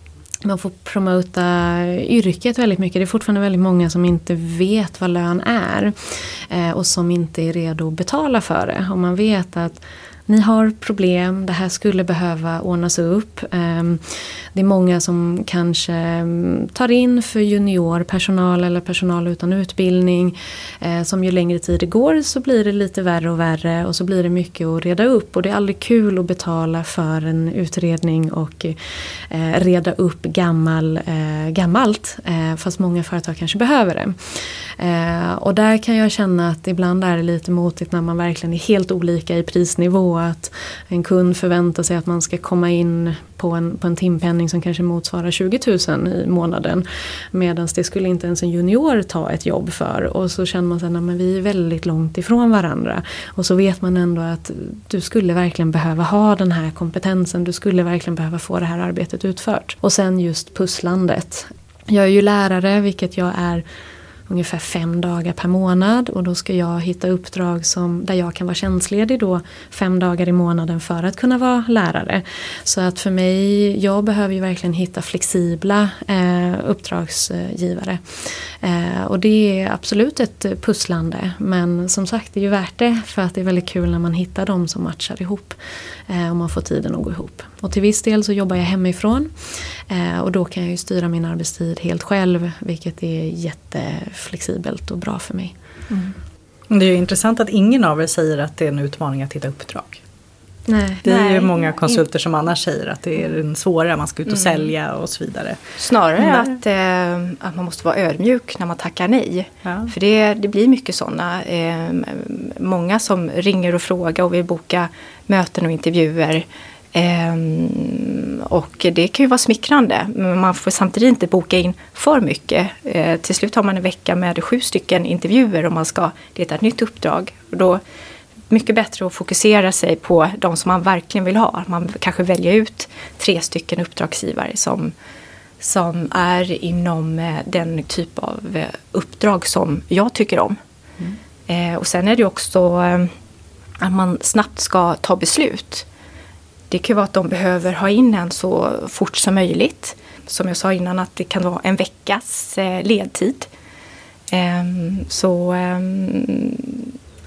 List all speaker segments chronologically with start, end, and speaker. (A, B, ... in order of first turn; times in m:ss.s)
0:00.4-1:03.6 A
1:04.3-1:35.5 A
1:36.7-1:40.0 B
1:40.7-1:41.0 A
1:41.0-1:45.6 B
1:41.0-1:42.0 C
1:44.3-1:44.7 C
1:45.8-2:07.8 C
1:46.2-1:46.5 B
1:49.6-1:49.9 B
2:08.5-2:14.9 C
2:15.6-2:20.6 C
2:21.5-2:23.1 C
2:23.8-2:25.8 C
2:26.7-2:33.5 C
2:34.3-2:36.9 C